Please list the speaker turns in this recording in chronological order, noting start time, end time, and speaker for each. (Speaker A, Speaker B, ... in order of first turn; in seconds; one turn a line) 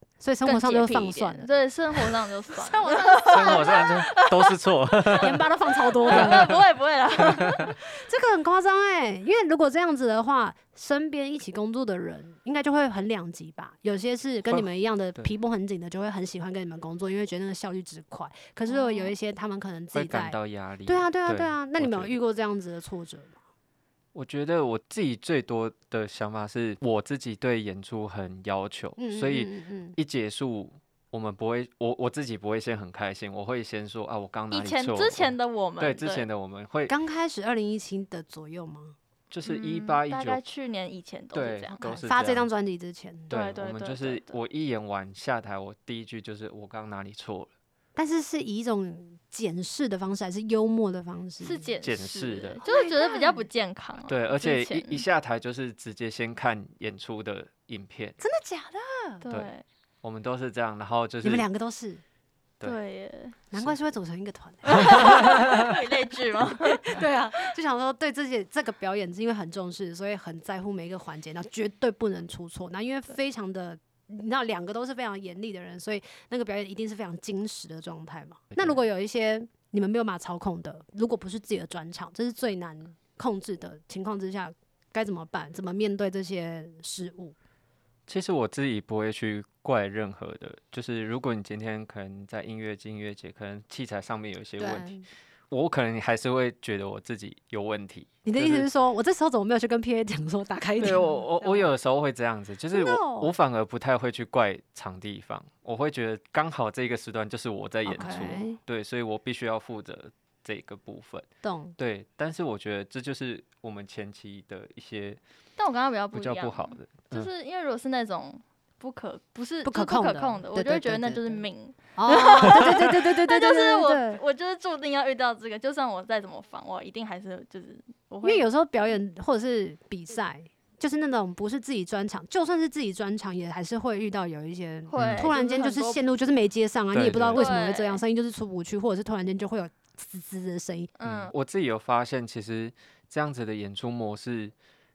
Speaker A: 0.2-4.2
Speaker B: 0.5-4.5
Speaker C: 3.3-5.5
Speaker A: 5.1-6.5
Speaker B: 6.0-7.8
Speaker C: 6.1-6.5
Speaker A: 7.7-23.4
Speaker C: 14.5-15.3
Speaker B: 18.7-19.2
Speaker C: 19.9-22.1
Speaker C: 24.1-36.9
Speaker A: 29.0-30.0
Speaker B: 34.5-36.3
Speaker A: 36.9-39.0
Speaker C: 39.3-40.4
Speaker B: 39.5-42.0
Speaker C: 41.3-42.5
Speaker A: 41.9-43.3
Speaker C: 43.3-47.5
Speaker B: 43.3-44.4
Speaker A: 48.0-51.7
Speaker B: 51.4-55.0
Speaker C: 51.8-52.6
Speaker A: 52.6-53.5
Speaker C: 54.1-58.2
Speaker A: 58.2-59.2
Speaker B: 59.2-59.6
Speaker C: 60.0-61.5
Speaker A: 61.2-62.0
Speaker B: 62.6-63.4
Speaker A: 63.5-65.8
Speaker B: 64.7-67.0
Speaker C: 64.8-65.7
Speaker A: 66.4-87.3
Speaker C: 78.5-78.8
Speaker C: 88.1-95.0
Speaker A: 94.6-95.0
Speaker C: 95.5-98.7
Speaker A: 98.2-101.7
Speaker C: 100.8-115.2
Speaker A: 102.7-103.3
Speaker A: 107.9-108.6
Speaker A: 111.4-111.8
Speaker B: 115.6-128.9
Speaker C: 116.1-117.3
Speaker A: 119.7-121.4
Speaker A: 122.0-124.2
Speaker A: 128.2-140.9
Speaker B: 134.9-136.0
Speaker C: 135.0-135.3
Speaker C: 136.9-137.5
Speaker B: 137.3-138.0
Speaker B: 141.0-141.3
Speaker C: 141.0-144.5